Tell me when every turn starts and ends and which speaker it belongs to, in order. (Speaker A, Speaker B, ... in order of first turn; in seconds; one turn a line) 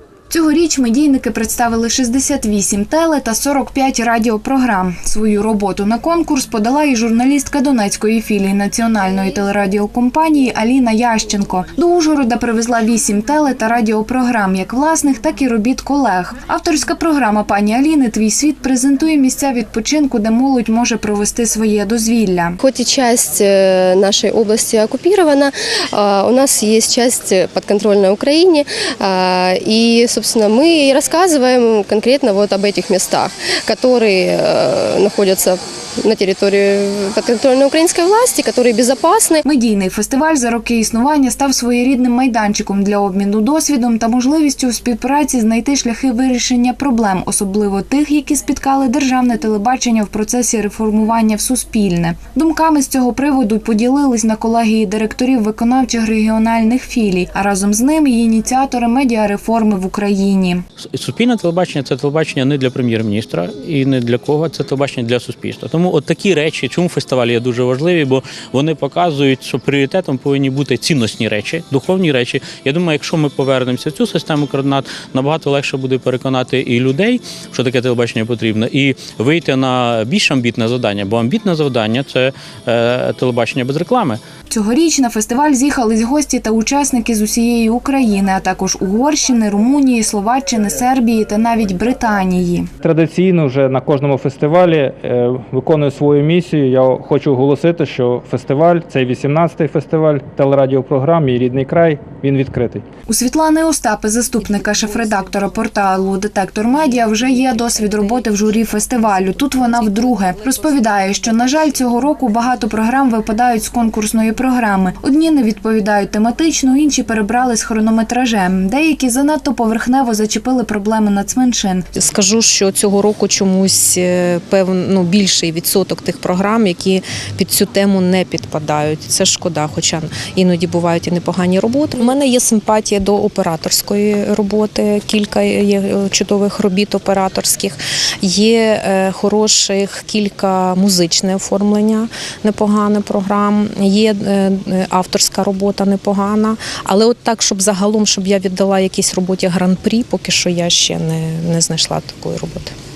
Speaker A: 0.3-22.6
Speaker B: 22.6-39.4
Speaker A: 39.4-60.6
Speaker C: 60.8-84.2
Speaker A: 84.5-92.7
Speaker D: 92.8-102.8
Speaker A: 103.1-121.8
Speaker E: 122.0-152.7